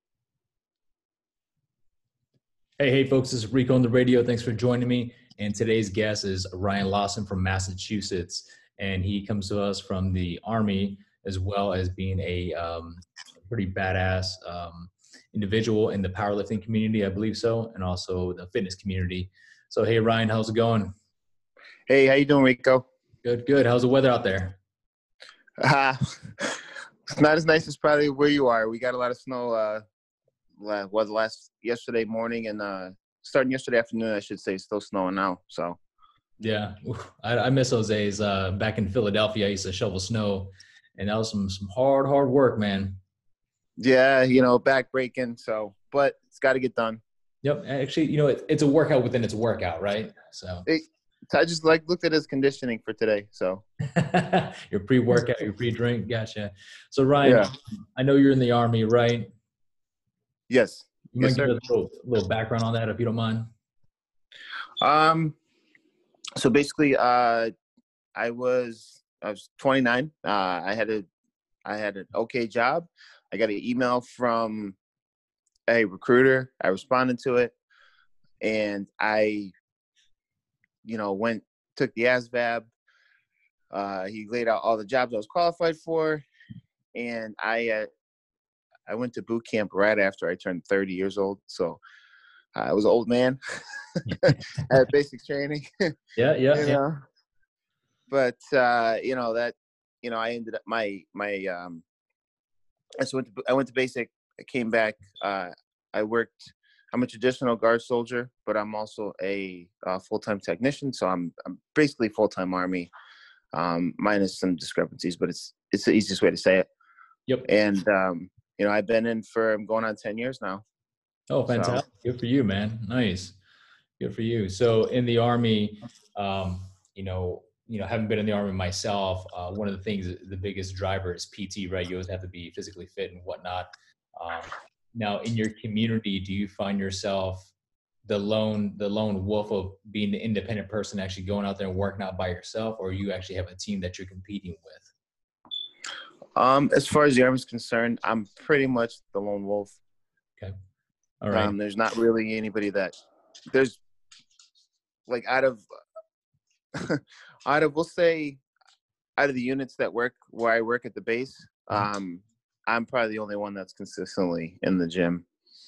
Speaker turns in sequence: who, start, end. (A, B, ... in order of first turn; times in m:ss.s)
0:02.8-0:20.9 A
0:21.9-0:22.8 B
0:23.2-0:24.6 A
0:25.6-0:29.8 B
0:30.6-0:35.8 B
0:36.4-0:43.0 A
0:43.8-0:47.0 B
0:47.4-0:50.6 A
0:50.7-0:53.6 B
0:53.9-0:59.3 A
0:57.2-0:57.5 B
1:00.5-1:01.5 B
1:01.1-1:03.5 A
1:04.8-1:05.4 B
1:06.4-1:07.5 B
1:08.2-1:11.1 B
1:11.6-1:14.8 B
1:15.7-1:17.6 B
1:18.4-1:19.5 B
1:20.8-1:22.7 B
1:23.7-1:26.2 B
1:26.9-1:27.9 B
1:28.9-1:31.8 B
1:32.6-1:35.7 B
1:36.2-1:36.8 A
1:36.6-1:37.0 B
1:38.1-1:41.8 B
1:43.0-1:52.9 B
1:53.5-1:56.7 B
1:57.4-2:00.6 B
2:01.3-2:03.4 A
2:01.5-2:01.8 B
2:04.0-2:17.5 A
2:18.0-2:24.9 A
2:26.4-2:29.8 B
2:31.2-2:31.5 A
2:31.3-2:32.9 B
2:33.5-2:33.8 B
2:35.1-2:35.6 B
2:36.8-2:38.4 B
2:39.2-2:45.2 B